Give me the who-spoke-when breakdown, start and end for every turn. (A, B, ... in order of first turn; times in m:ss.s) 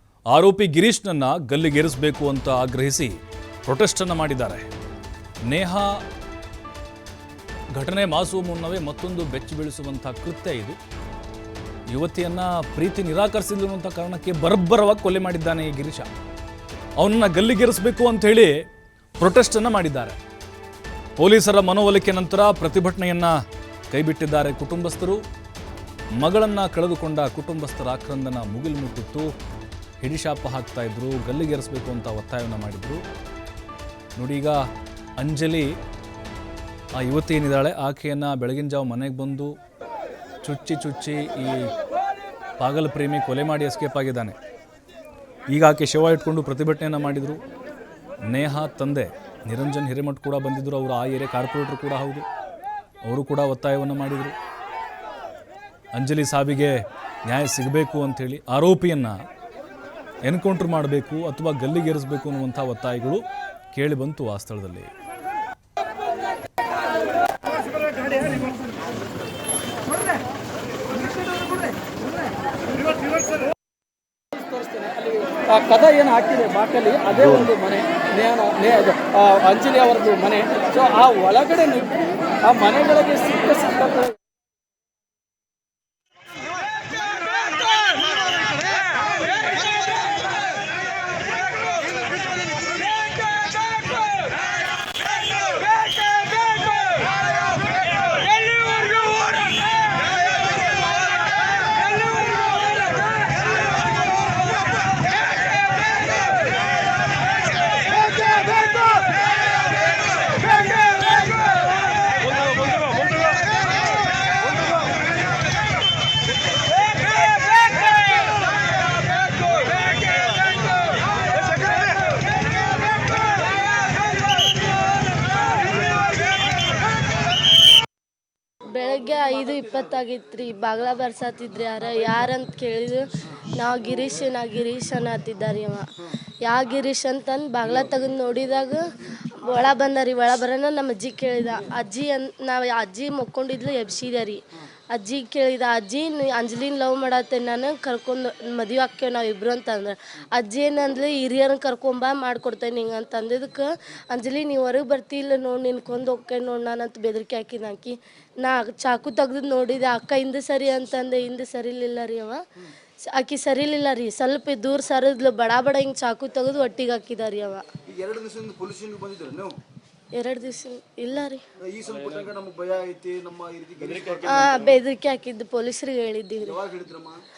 0:00.3-0:03.2 A
0:03.7-0:04.7 A
0:05.5-0:06.0 A
0:07.7-0:10.8 A
0:11.9-0:16.1 A
0:17.0-0:18.5 A
0:19.2-0:20.2 A
0:21.2-0:23.4 A
0:23.9-0:25.2 A
0:26.2-0:29.3 A
0:30.0-0:33.0 A
0:34.2-0:34.6 A
0:35.2-0:35.7 A
0:37.0-0:39.5 A
0:40.4-0:41.7 A
0:42.6-0:44.4 A
0:45.5-0:47.4 A
0:48.3-0:52.3 A
0:53.0-0:54.3 A
0:56.0-0:59.2 A
1:00.3-1:03.2 A
1:03.7-1:04.9 A
1:14.3-1:24.2 B
1:17.1-1:17.5 A
1:48.1-1:49.1 C
2:08.7-2:24.4 D
2:24.9-2:42.4 D
2:43.1-2:47.6 D
2:47.9-2:49.6 C
2:50.2-2:51.4 D
2:51.6-2:54.6 C
2:51.9-2:52.3 B
2:53.8-2:54.8 B
2:54.3-2:56.6 D
2:56.4-2:57.2 C